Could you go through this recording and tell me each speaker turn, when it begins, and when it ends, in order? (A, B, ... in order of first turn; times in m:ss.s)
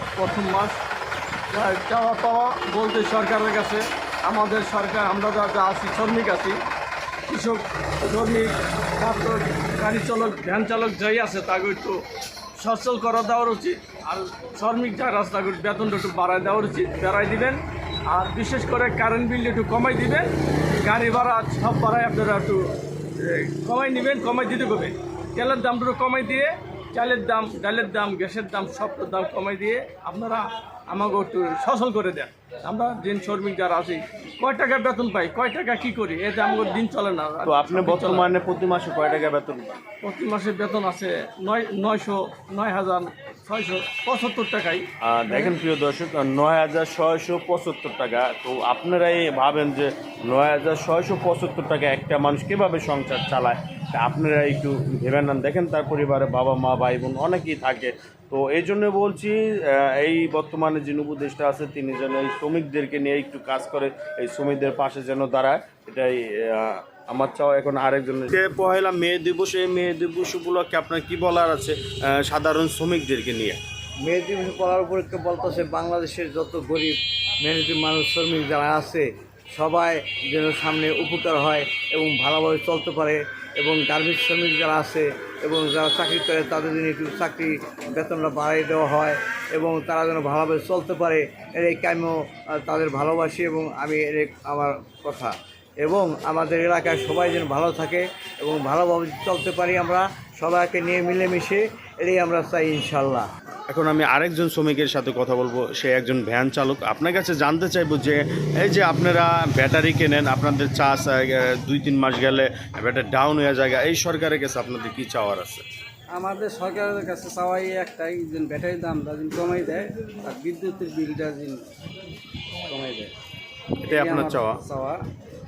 0:00.2-0:00.8 A
0:01.5-0:06.6 A
0:07.3-0:12.0 A
0:12.6-0:20.3 A
0:20.8-0:38.3 A
0:37.4-0:39.8 B
0:40.0-0:45.5 A
0:45.0-1:13.6 B
1:14.0-1:43.3 C
1:43.7-1:55.6 B
1:56.1-2:01.6 D
2:02.6-2:03.1 D
2:03.8-2:04.6 B
2:03.8-2:05.0 D